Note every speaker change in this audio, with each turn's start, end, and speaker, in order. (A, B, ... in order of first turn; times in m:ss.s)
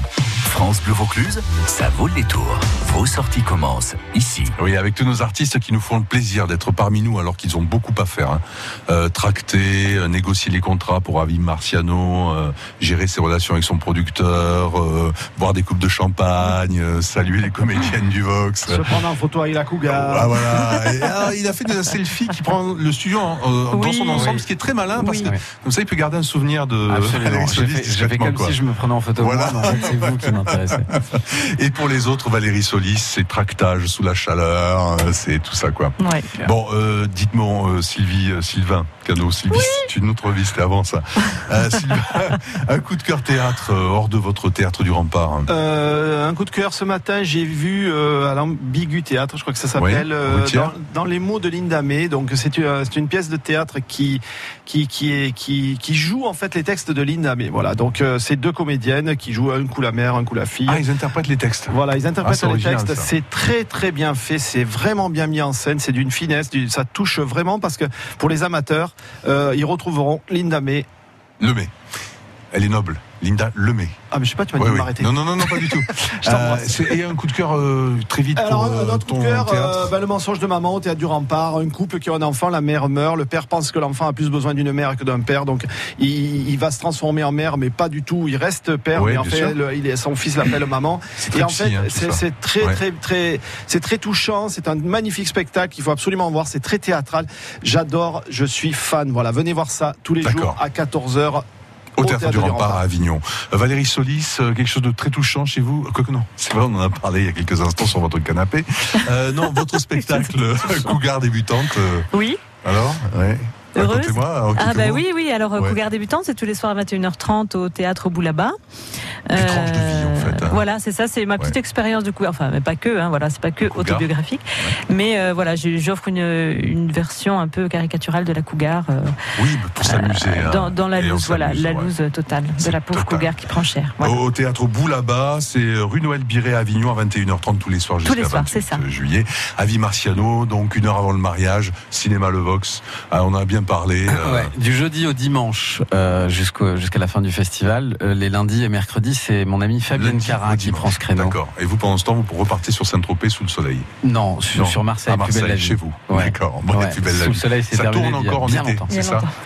0:00.4-0:04.5 A
0:04.6-0:19.0 B
0:18.6-0:20.8 C
0:19.9-0:28.6 B
0:23.7-0:24.3 D
0:24.9-0:25.3 D
0:26.9-0:30.9 E
0:29.2-0:45.5 B
0:36.0-0:36.3 D
0:45.5-1:00.8 C
0:49.8-0:50.7 B
1:00.7-1:03.1 B
1:01.7-1:10.8 C
1:11.4-1:11.7 B
1:12.5-1:14.0 B
1:14.1-1:16.9 C
1:14.6-1:19.9 B
1:18.4-1:41.4 C
1:28.9-1:29.6 B
1:31.2-1:32.8 B
1:40.2-1:40.6 B
1:42.0-1:42.8 C
1:42.0-1:52.1 B
1:50.0-1:51.0 D
1:52.1-1:52.4 D
1:52.6-1:55.0 B
1:53.7-1:58.6 D
1:59.3-2:09.2 D
1:59.4-2:00.6 B
2:03.6-2:04.1 B
2:09.4-2:11.9 B
2:09.8-2:14.2 D
2:12.6-2:13.3 B
2:14.0-2:24.5 B
2:18.0-2:18.8 D
2:24.1-2:31.4 E
2:29.9-2:33.9 B
2:34.0-2:38.8 E
2:34.5-2:39.3 B
2:38.9-2:39.3 D